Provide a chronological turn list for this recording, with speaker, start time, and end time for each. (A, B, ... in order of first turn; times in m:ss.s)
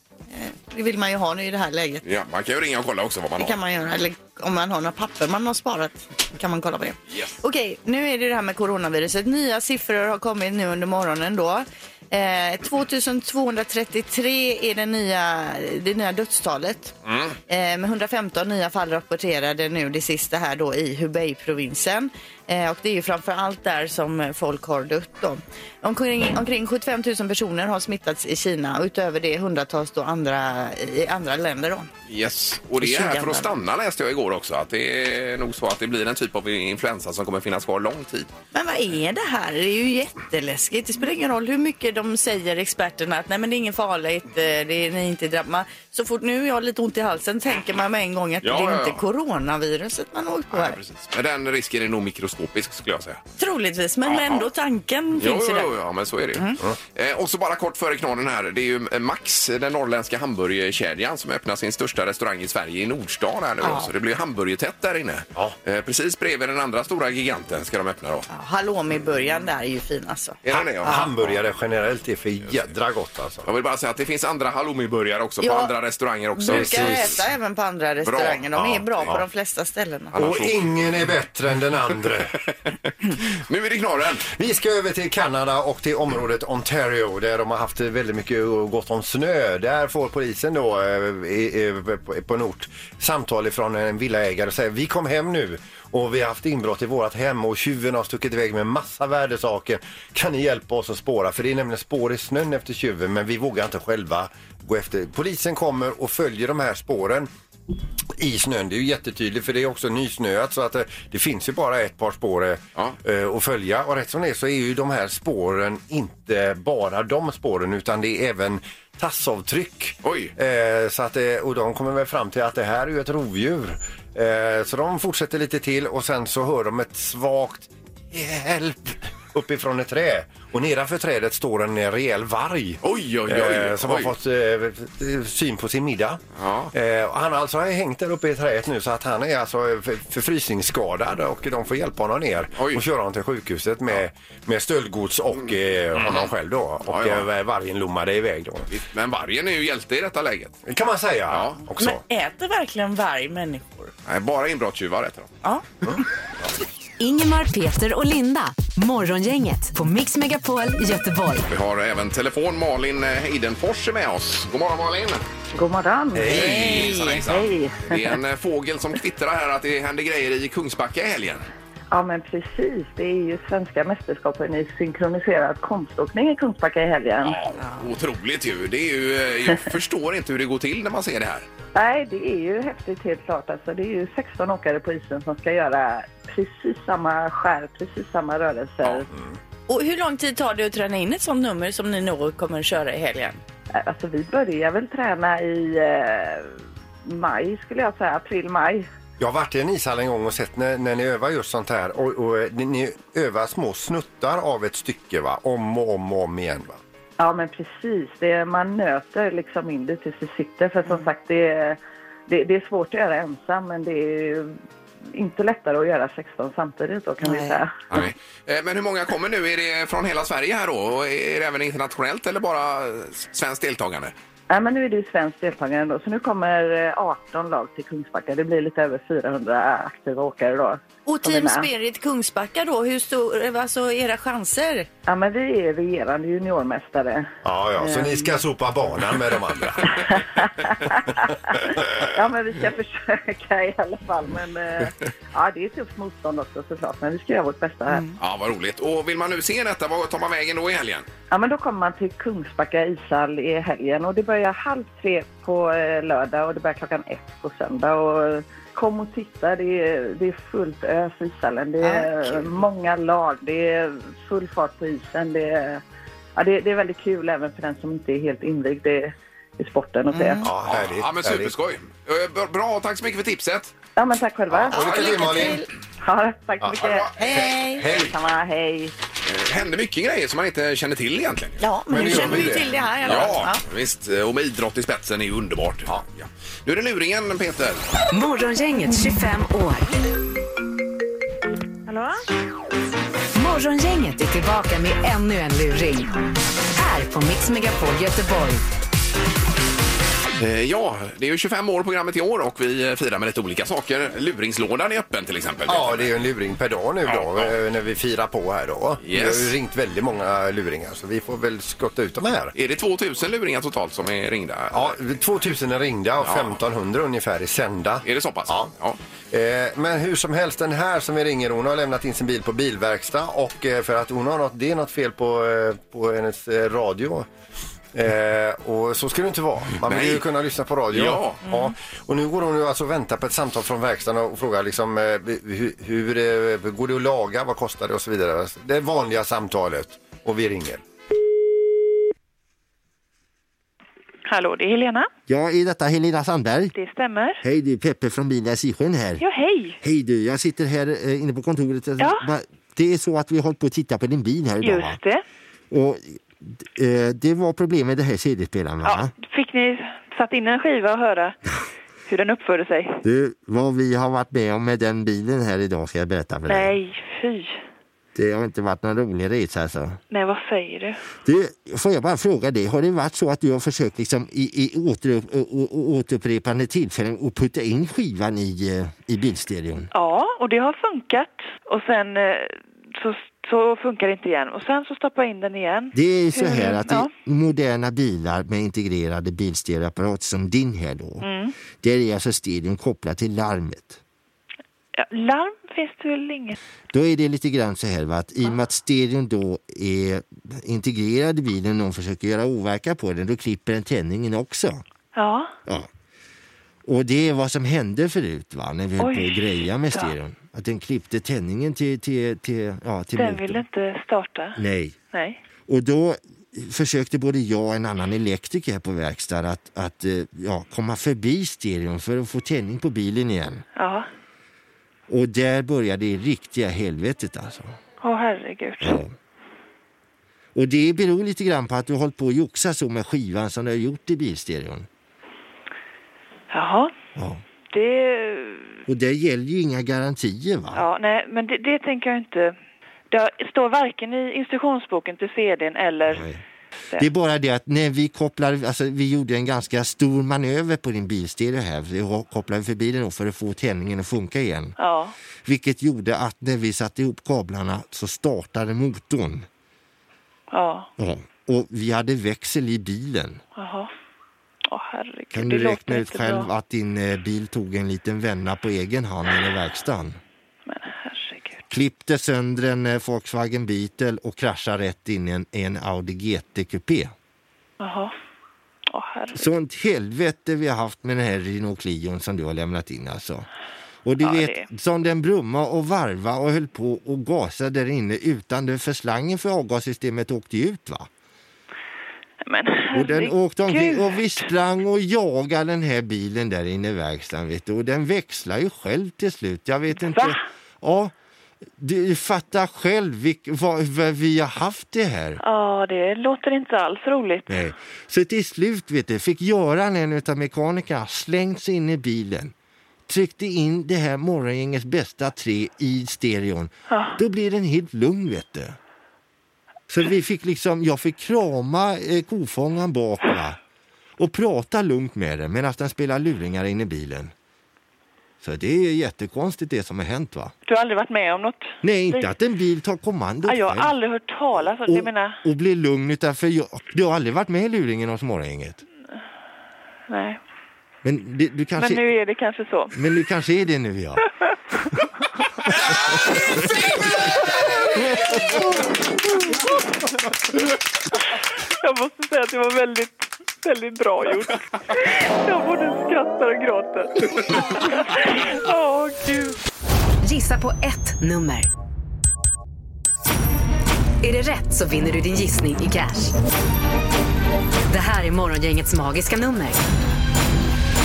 0:00.3-0:02.0 A
0:02.0-0:03.6 B
0:03.4-0:16.9 A
0:07.1-0:07.4 B
0:17.0-0:17.4 B
0:17.5-0:31.9 A
0:32.1-0:38.3 B
0:32.8-0:33.5 A
0:38.5-0:50.8 A
0:48.4-0:49.0 B
0:50.5-0:53.2 B
0:53.4-0:55.7 A
0:54.0-0:54.5 B
0:55.2-1:08.3 B
1:03.6-1:03.9 A
1:08.3-1:11.1 A
1:10.4-1:11.4 B
1:10.8-1:13.5 C
1:13.4-1:17.2 B
1:15.4-1:15.7 A
1:16.4-1:20.1 A
1:16.5-1:17.1 C
1:18.0-1:19.1 B
1:20.1-1:21.0 B
1:20.2-1:22.4 C
1:23.2-1:24.3 B
1:24.3-1:47.3 C
1:48.2-2:28.7 C
2:00.0-2:00.3 B
2:12.8-2:14.1 B
2:16.4-2:16.7 B
2:22.6-2:22.8 B
2:26.0-2:26.3 B
2:26.9-2:27.3 B
2:28.7-2:30.6 B
2:30.7-2:32.0 C
2:31.3-2:31.6 B
2:31.8-2:33.9 A
2:34.1-2:35.3 B
2:37.0-2:41.5 D
2:41.5-2:45.2 B
2:45.6-2:48.2 E
2:46.2-2:46.7 C
2:46.3-2:51.5 B
2:46.7-2:47.0 A
2:51.9-2:57.4 E
2:57.2-3:01.5 B
2:57.6-2:57.8 A
3:01.8-3:09.1 E
3:09.7-3:13.4 A
3:13.8-3:18.9 E
3:19.2-3:26.8 C
3:27.2-3:34.6 E
3:35.1-3:37.8 E
3:37.3-3:37.6 A
3:37.9-3:44.1 B
3:44.5-3:51.7 E
3:51.1-3:54.9 A
3:55.1-3:58.4 E
3:57.4-4:00.0 C
3:59.9-4:08.1 E
4:08.2-4:11.1 B
4:11.3-4:25.8 E
4:21.8-4:22.5 A
4:26.4-4:30.4 E
4:30.1-4:30.4 A
4:30.4-4:31.5 C
4:30.7-4:33.7 B
4:34.0-4:35.5 E
4:34.5-4:35.6 C
4:34.7-4:35.7 A
4:35.0-4:35.4 B
4:36.0-4:37.1 E
4:36.8-4:38.0 B
4:37.2-4:37.9 A
4:37.8-4:38.1 C
4:37.9-4:38.9 E
4:39.3-4:47.8 B
4:41.6-4:43.6 A
4:41.9-4:42.7 C
4:48.1-4:49.9 D
4:53.4-4:56.2 D
4:56.7-4:58.6 D
5:00.4-5:06.1 B
5:05.7-5:12.5 C
5:07.1-5:07.5 B
5:09.0-5:09.5 B
5:12.6-5:14.9 B
5:14.7-5:18.7 C
5:16.2-5:16.6 B
5:18.0-5:19.0 B
5:19.3-5:27.3 C
5:27.9-5:40.8 C
5:29.8-5:30.2 B
5:30.9-5:31.4 B
5:44.3-5:45.1 F
5:45.3-5:46.7 G
5:46.8-5:47.4 F
5:47.4-5:49.2 G
5:49.2-5:49.8 F
5:49.8-5:55.0 G
5:52.0-5:52.3 F
5:54.6-5:55.2 F
5:55.7-5:59.1 G
5:58.8-6:01.4 F
6:02.1-6:03.0 F
6:03.0-6:06.8 G
6:06.5-6:07.6 F
6:08.2-6:10.0 G
6:10.1-6:11.0 F
6:11.2-6:19.9 G
6:19.9-6:27.1 F
6:25.9-6:34.0 G
6:31.2-6:31.5 F
6:35.0-6:36.6 F
6:36.9-6:44.8 G
6:45.2-6:45.5 F
6:46.9-6:53.6 G
6:49.0-6:50.1 F
6:53.2-6:54.6 F
6:54.6-6:55.0 G
6:55.1-6:55.4 F
6:55.7-7:03.6 G
7:03.8-7:04.1 F
7:05.1-7:07.8 G
7:08.0-7:09.0 F
7:08.8-7:09.1 G
7:10.6-7:14.9 G
7:16.5-7:16.9 F
7:17.2-7:17.4 G
7:17.7-7:18.8 F
7:18.9-7:20.8 G
7:20.7-7:22.6 F
7:23.1-7:26.3 F
7:26.1-7:26.4 G
7:27.0-7:34.7 G
7:34.8-7:35.1 F
7:35.4-7:39.5 G
7:40.5-7:40.9 F
7:41.0-7:43.4 G
7:43.6-7:43.9 F
7:44.7-7:46.5 F
7:45.3-7:50.2 G
7:50.7-7:51.6 F
7:51.7-7:57.1 G
7:57.8-7:58.1 F
7:58.9-7:59.5 F
7:59.4-8:03.5 G
8:04.0-8:11.1 G
8:04.2-8:04.7 F
8:12.4-8:14.5 F
8:12.9-8:21.1 G
8:20.0-8:20.4 F
8:21.8-8:25.4 G
8:25.4-8:27.5 F
8:27.5-8:32.5 G
8:33.1-8:38.8 G
8:36.9-8:37.2 F
8:39.9-8:43.6 G
8:44.2-8:47.3 G
8:48.4-8:50.5 G
8:50.7-8:52.3 F
8:51.8-8:53.9 G
8:53.4-8:55.4 F
8:54.8-8:58.8 G
9:00.1-9:00.4 F
9:01.0-9:02.0 G
9:01.8-9:03.0 F
9:03.0-9:04.3 G
9:11.8-9:19.6 F
9:20.2-9:21.7 D
9:24.2-9:26.3 D
9:27.9-9:29.8 D